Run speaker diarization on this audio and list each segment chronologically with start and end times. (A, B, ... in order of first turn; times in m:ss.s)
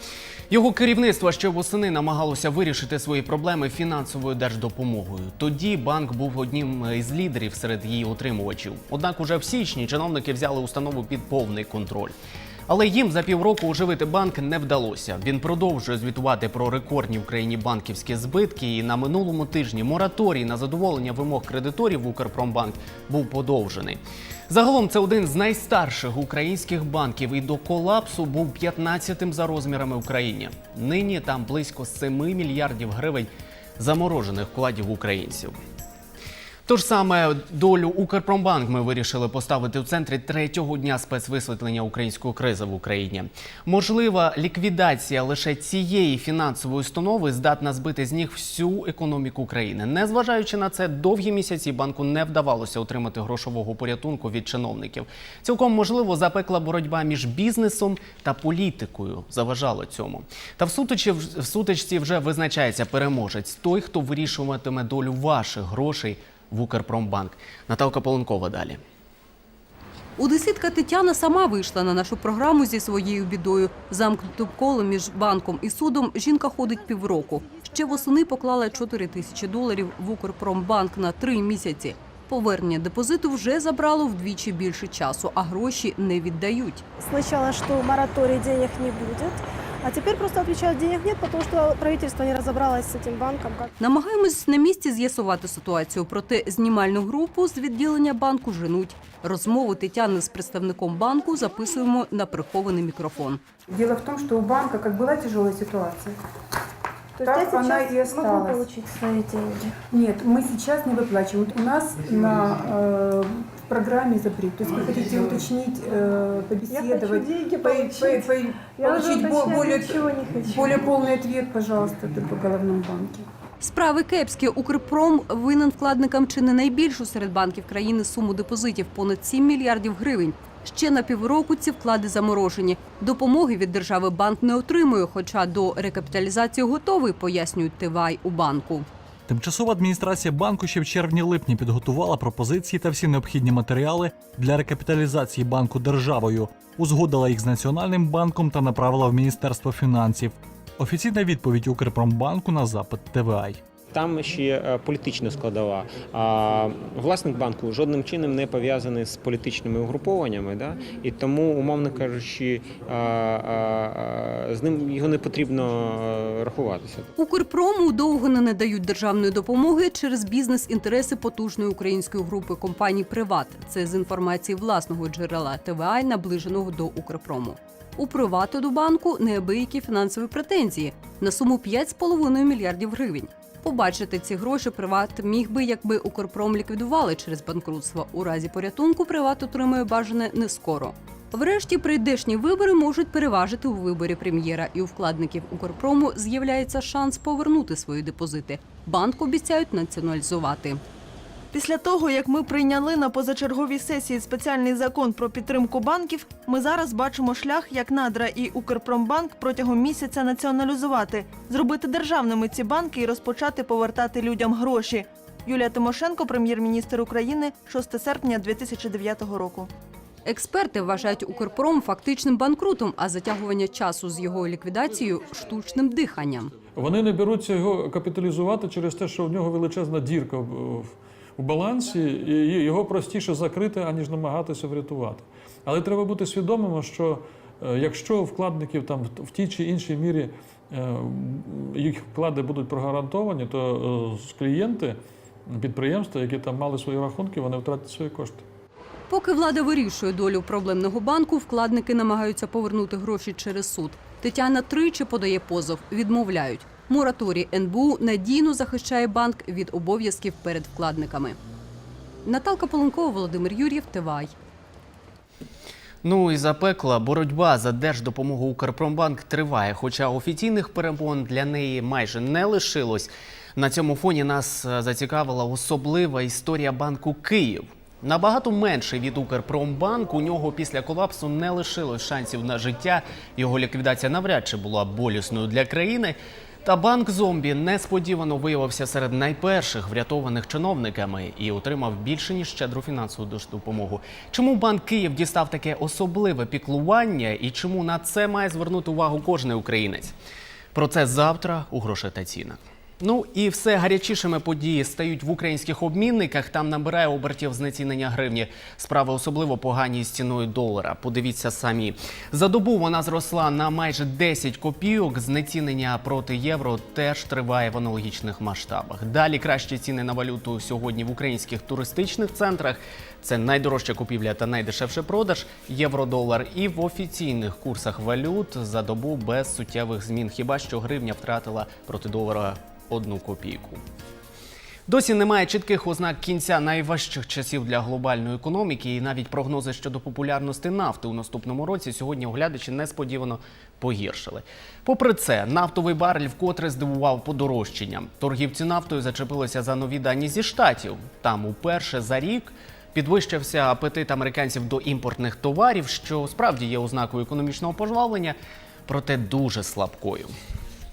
0:00.5-0:12.1 A
0:12.7-0:35.6 A
0:36.7-1:08.8 A
1:10.2-1:26.8 B
1:27.0-1:33.7 C
1:33.8-1:43.4 B
1:43.7-1:46.2 D
1:47.2-1:49.8 C
1:47.2-1:48.6 D
1:49.9-2:03.3 D
1:56.7-2:00.9 C
2:03.6-2:18.9 B
2:19.3-2:33.6 E
2:33.9-2:47.1 F
2:47.2-3:20.8 B
3:21.5-3:39.7 G
3:40.2-3:46.5 B
3:46.7-4:08.4 H
4:09.1-4:21.4 B
4:22.2-4:24.3 B
4:26.0-5:00.1 A
5:00.7-5:33.8 A
5:34.9-6:00.3 A